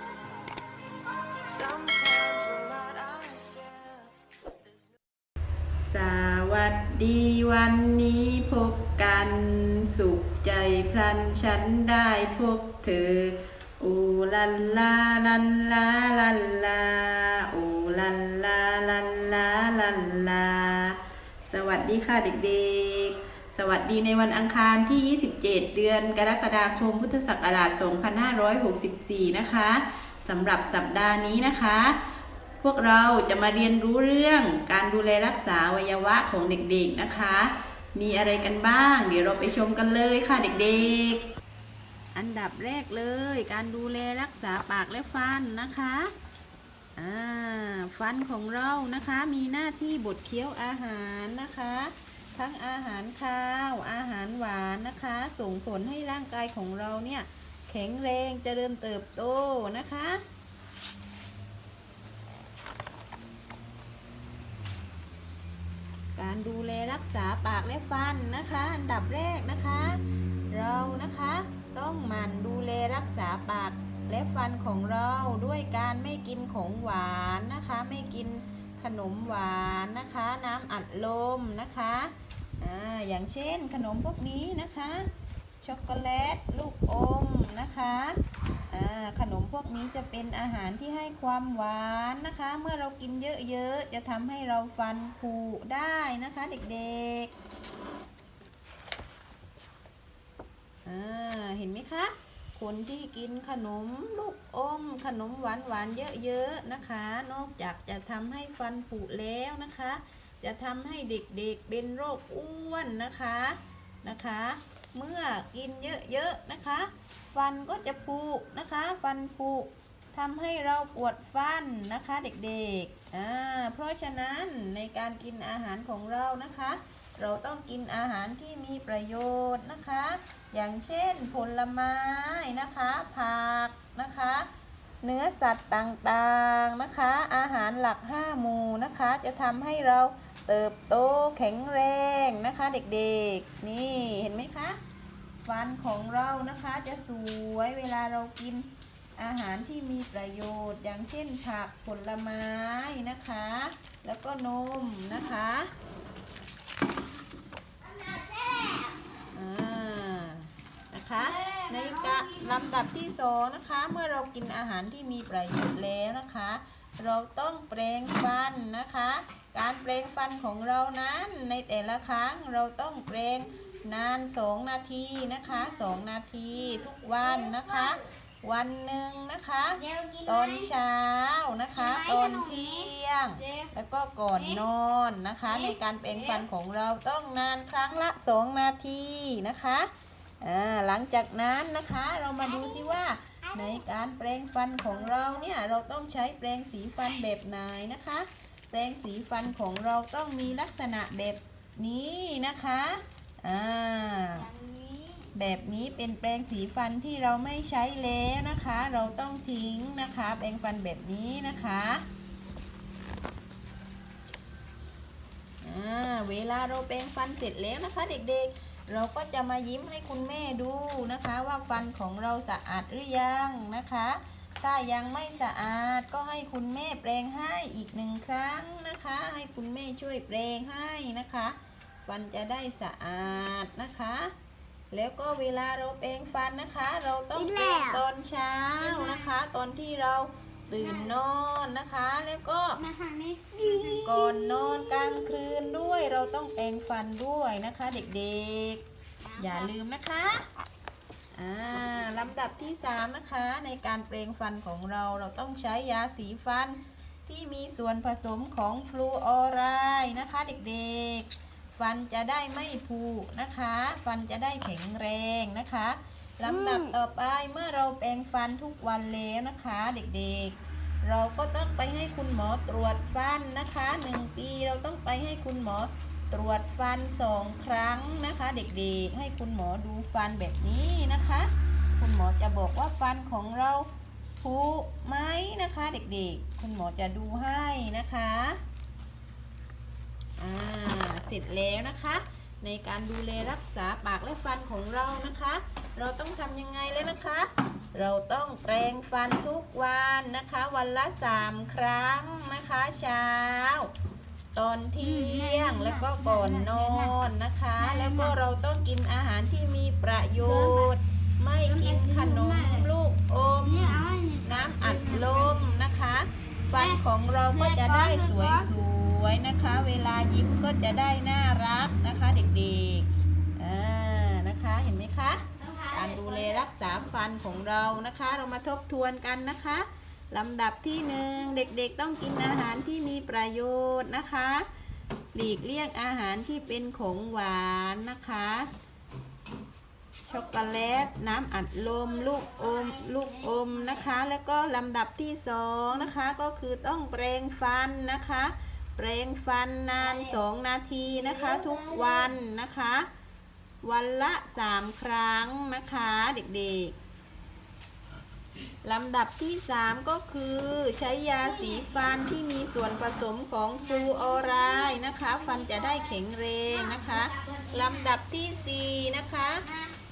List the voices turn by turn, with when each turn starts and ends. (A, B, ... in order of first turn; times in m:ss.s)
0:01.5-0:05.0 A
0:05.8-0:32.0 B
0:32.6-0:41.2 B
0:42.1-0:46.1 B
0:47.0-1:00.2 B
1:06.2-1:10.0 B
1:10.5-1:25.1 B
1:25.6-1:28.2 B
1:28.7-1:37.3 B
1:40.8-2:14.5 B
2:15.0-2:24.8 B
2:25.5-2:28.7 B
2:29.2-2:35.7 B
2:37.9-2:39.0 C
2:39.3-3:09.9 B
2:41.2-2:42.7 C
2:57.5-2:57.9 C
2:59.8-3:00.7 C
3:01.8-3:03.7 C
3:04.4-3:04.6 C
3:05.5-3:06.4 C
3:10.4-3:24.5 B
3:12.4-3:12.9 C
3:13.5-3:13.8 C
3:24.4-3:25.3 C
3:25.3-3:32.0 B
3:35.6-3:51.6 B
3:52.1-3:54.3 B
3:54.9-4:02.8 B
3:57.4-3:58.0 C
3:58.8-3:59.3 C
4:00.8-4:01.2 C
4:02.8-4:04.9 C
4:04.0-4:08.8 B
4:09.2-4:09.7 C
4:09.4-4:10.4 B
4:11.3-4:43.9 B
4:44.4-4:48.6 B
4:50.4-5:03.9 B
5:04.6-5:34.7 B
5:05.0-5:08.4 C
5:10.4-5:10.9 C
5:11.7-5:12.9 C
5:13.5-5:15.7 C
5:16.7-5:18.7 C
5:25.6-5:26.7 C
5:35.3-5:38.7 B
5:40.3-5:53.1 B
5:42.4-5:44.1 C
5:50.0-5:50.4 C
5:51.1-5:52.3 C
5:53.8-5:56.9 B
5:58.8-6:09.6 B
6:01.4-6:02.2 C
6:03.8-6:06.2 C
6:06.7-6:08.2 C
6:09.6-6:10.0 C